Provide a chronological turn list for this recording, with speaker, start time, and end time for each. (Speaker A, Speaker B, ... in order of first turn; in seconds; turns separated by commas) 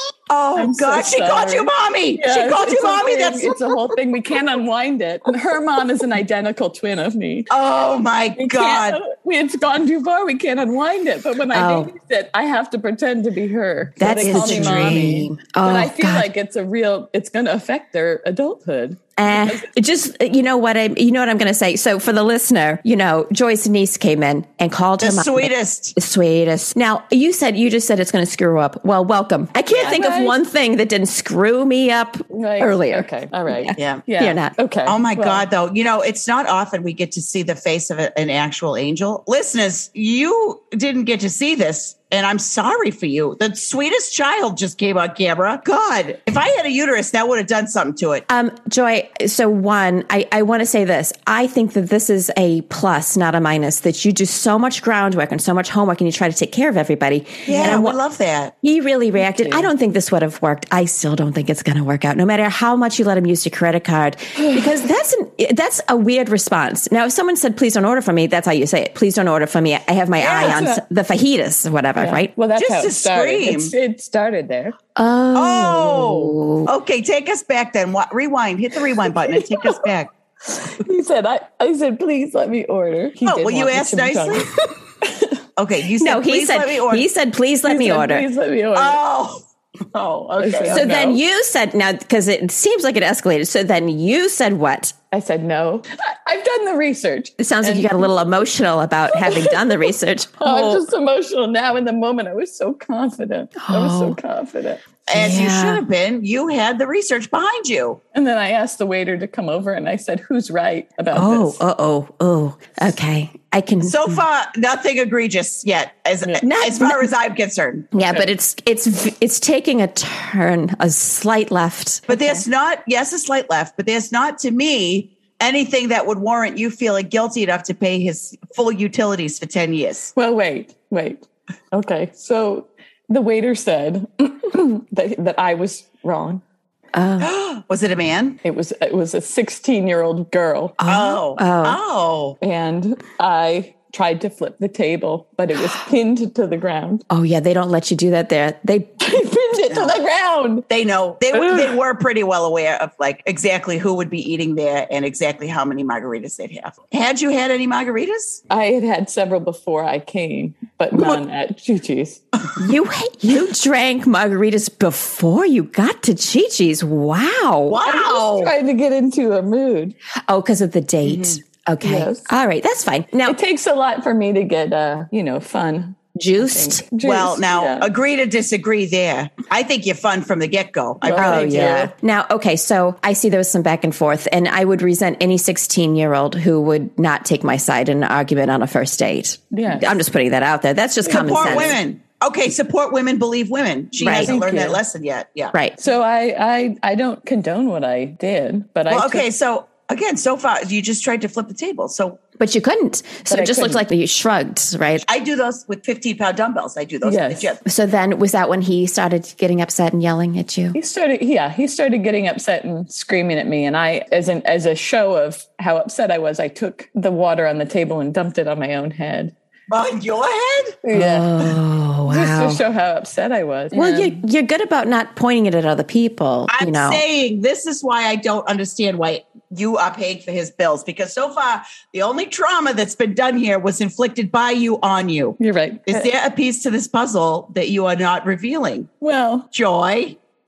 Speaker A: 0.3-3.8, Speaker B: 0.6-7.5, Speaker A: 7.5-9.0, Speaker B: 8.3-19.7, Speaker C: 11.5-11.9, Speaker C: 14.0-16.3, Speaker A: 14.1-15.2, Speaker C: 19.2-34.5, Speaker A: 25.0-25.9, Speaker A: 29.7-30.0, Speaker B: 29.8-30.4, Speaker B: 32.3-35.4, Speaker A: 33.8-34.0, Speaker A: 34.8-48.2, Speaker C: 48.3-58.0, Speaker A: 57.5-58.5, Speaker B: 57.5-57.8, Speaker C: 58.6-72.3, Speaker B: 59.2-59.7, Speaker A: 70.2-70.8, Speaker B: 70.3-70.7, Speaker B: 72.0-74.8, Speaker A: 72.5-73.7, Speaker C: 75.0-76.7, Speaker A: 75.3-80.1, Speaker B: 79.3-79.8, Speaker B: 80.4-84.5, Speaker A: 83.2-84.5, Speaker B: 85.0-85.4, Speaker A: 85.6-87.1, Speaker C: 86.0-88.2, Speaker B: 87.7-89.0, Speaker A: 88.7-89.4, Speaker B: 89.9-91.2, Speaker A: 90.3-90.9, Speaker C: 90.7-94.9, Speaker B: 95.1-98.1, Speaker C: 97.4-100.8, Speaker B: 99.1-104.8, Speaker C: 103.6-104.2, Speaker A: 105.1-108.0, Speaker C: 105.1-105.8, Speaker B: 108.1-111.6, Speaker C: 111.1-114.2, Speaker A: 113.8-117.9, Speaker C: 116.4-117.1, Speaker C: 117.9-122.4, Speaker A: 122.1-130.1, Speaker B: 130.2-136.4, Speaker C: 136.9-137.3, Speaker A: 137.2-138.4, Speaker B: 138.4-140.8, Speaker C: 140.8-141.8, Speaker A: 140.9-142.4, Speaker B: 142.4-147.0, Speaker C: 147.1-149.0, Speaker B: 149.0-150.7, Speaker A: 149.7-150.0, Speaker A: 150.7-158.4, Speaker B: 151.3-151.8, Speaker B: 158.5-162.2, Speaker C: 162.6-167.8, Speaker A: 167.7-168.5, Speaker B: 167.8-169.9, Speaker C: 170.3-173.4, Speaker A: 171.0-171.4, Speaker B: 171.8-172.3, Speaker B: 173.2-177.9, Speaker C: 176.2-176.8, Speaker A: 177.0-181.8, Speaker B: 181.0-181.9, Speaker C: 181.2-191.8, Speaker B: 189.5-189.9, Speaker A: 191.0-195.5, Speaker B: 191.1-191.7, Speaker C: 194.0-194.3, Speaker B: 194.0-194.8, Speaker B: 195.8-199.2, Speaker A: 198.9-202.2, Speaker C: 202.4-205.0, Speaker B: 203.3-203.8, Speaker A: 205.0-207.6, Speaker B: 207.0-207.5, Speaker C: 207.6-210.8, Speaker B: 210.7-219.3, Speaker A: 219.7-220.8, Speaker B: 220.8-221.4, Speaker C: 220.9-222.6, Speaker B: 222.1-224.2, Speaker C: 223.7-227.0, Speaker A: 226.5-238.9, Speaker B: 235.4-236.1, Speaker B: 239.0-239.5, Speaker A: 239.5-240.2